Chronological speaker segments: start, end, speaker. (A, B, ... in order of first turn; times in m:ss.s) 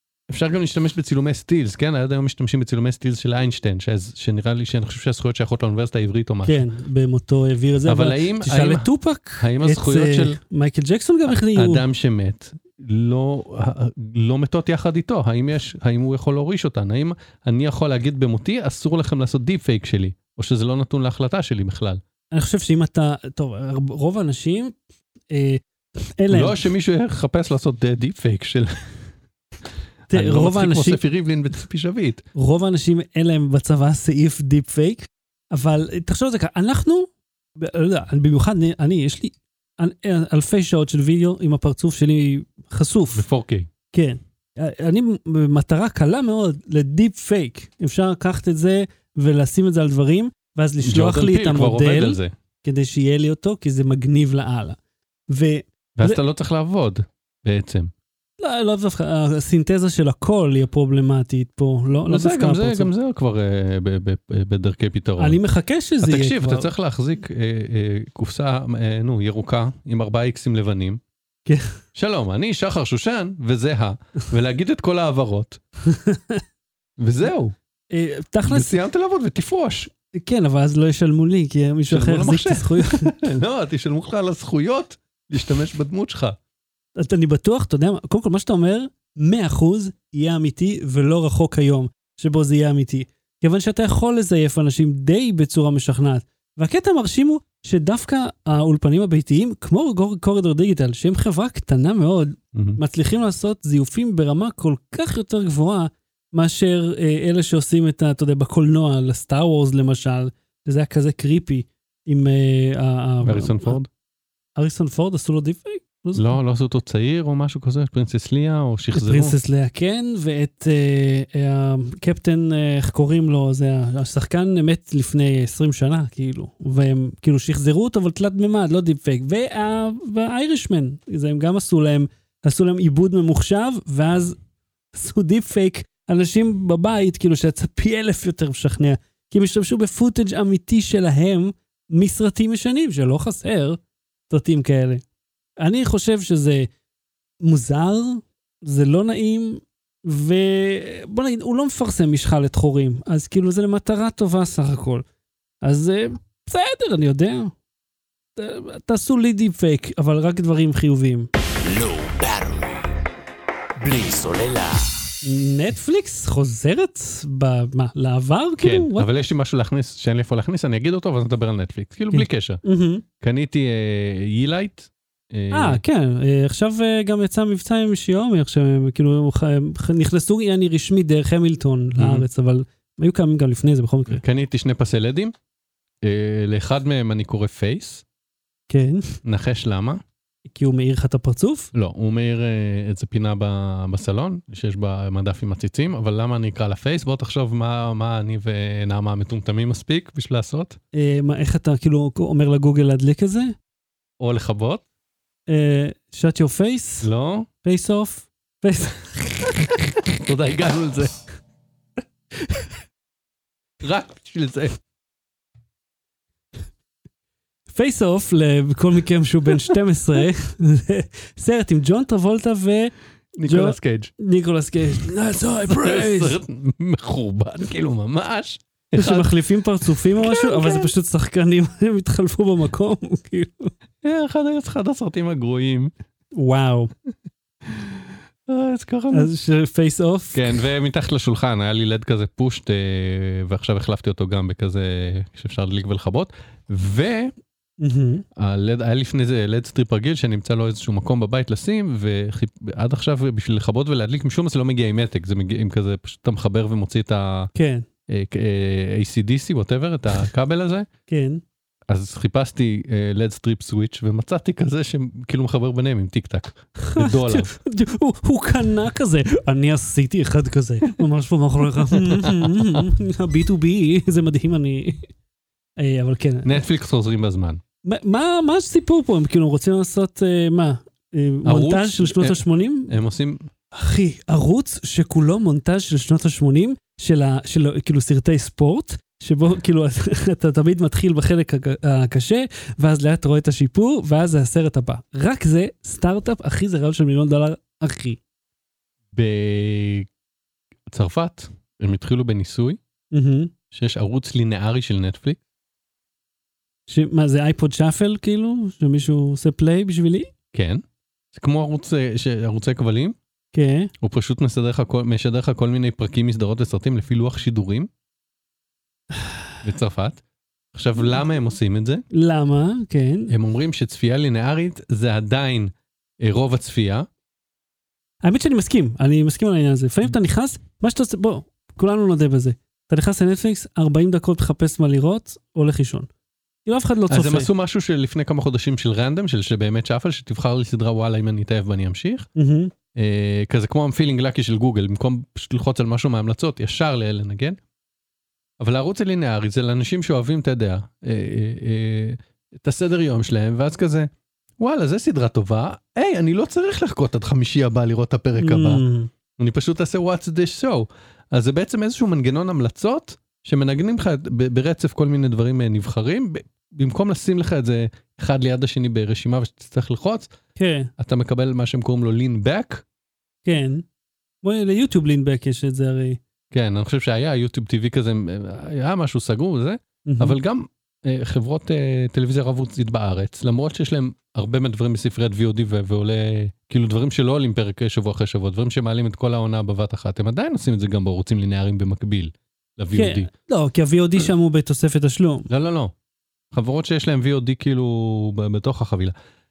0:00.3-0:06.6 A
0:06.4-0:11.8 B
0:07.9-0:08.9 A
0:09.4-0:10.4 A
0:11.5-0:22.0 A
0:22.3-0:24.8 B
0:25.3-0:26.6 B
0:26.3-0:28.9 A
0:30.1-0:31.0 B
0:30.1-0:32.2 A
0:32.3-0:43.2 B
0:43.1-0:43.7 A
0:43.9-0:54.8 B
0:50.8-0:52.3 A
0:55.3-0:56.2 B
0:56.0-0:57.9 A
0:58.4-1:02.9 B
1:02.1-1:05.4 A
1:05.2-1:06.7 B
1:06.0-1:11.0 A
1:11.4-1:11.7 B
1:11.9-1:15.6 A
1:15.9-1:16.4 B
1:17.0-1:17.6 A
1:17.9-1:18.8 B
1:18.5-1:19.9 A
1:20.1-1:23.1 B
1:21.9-1:26.4 A
1:27.0-1:53.8 B
1:42.5-1:42.8 A
1:53.2-1:53.9 A
1:54.6-1:56.4 B
1:56.1-1:59.3 A
1:58.9-2:14.4 B
2:14.9-2:23.8 B
2:24.3-2:25.0 B
2:25.6-2:26.7 B
2:27.4-2:35.0 B
2:35.6-2:37.5 B
2:38.4-2:41.3 B
2:41.6-2:42.9 C
2:43.8-2:45.0 C
2:45.2-2:49.1 B
2:48.6-2:52.6 A
2:52.1-2:53.0 B
2:53.2-2:55.8 A
2:55.5-3:04.2 B
3:02.0-3:02.2 A
3:04.1-3:05.3 A
3:06.0-3:08.0 A
3:08.7-3:09.1 B
3:09.2-3:10.0 A
3:10.5-3:11.7 B
3:11.7-3:20.8 A
3:20.9-3:23.5 B
3:24.2-3:24.8 A
3:25.5-3:27.1 B
3:27.0-3:27.5 A
3:27.6-3:29.8 B
3:30.1-3:31.1 A
3:33.8-3:34.8 A
3:37.7-3:42.9 B
3:43.4-3:44.1 A
3:43.4-3:46.4 B
3:45.4-3:50.9 A
3:49.0-3:53.7 B
3:54.0-3:55.9 A
3:56.3-3:56.9 B
3:57.6-3:59.3 A
3:59.1-4:00.5 B
4:00.3-4:07.3 A
4:07.8-4:08.2 B
4:08.4-4:17.5 A
4:17.5-4:17.8 B
4:18.1-4:20.9 A
4:21.1-4:21.4 B
4:21.9-4:27.5 A
4:26.8-4:35.1 B
4:31.8-4:32.8 A
4:35.8-4:36.6 B
4:36.4-4:37.6 A
4:37.8-4:42.9 B
4:41.4-4:43.4 A
4:43.7-4:58.2 B
4:59.1-5:00.1 A
5:00.9-5:02.8 A
5:03.1-5:03.5 B
5:03.7-5:05.4 A
5:06.9-5:10.3 B
5:10.5-5:13.2 A
5:13.5-5:13.9 B
5:14.0-5:17.9 A
5:19.6-5:20.2 A
5:20.7-5:22.0 A
5:22.1-5:23.3 B
5:23.3-5:27.1 A
5:28.2-5:36.1 B
5:36.6-5:37.5 B
5:37.1-5:42.3 A
5:42.4-5:42.7 B
5:42.9-5:47.6 A
5:48.6-5:58.8 A
5:58.4-5:59.1 B
5:59.4-6:10.3 A
6:10.6-6:10.9 B
6:11.0-6:12.8 A
6:13.4-6:13.8 B
6:14.4-6:16.2 B
6:16.5-6:33.3 A
6:20.0-6:20.4 B
6:32.9-6:35.5 B
6:35.5-6:35.9 A
6:36.5-6:39.1 A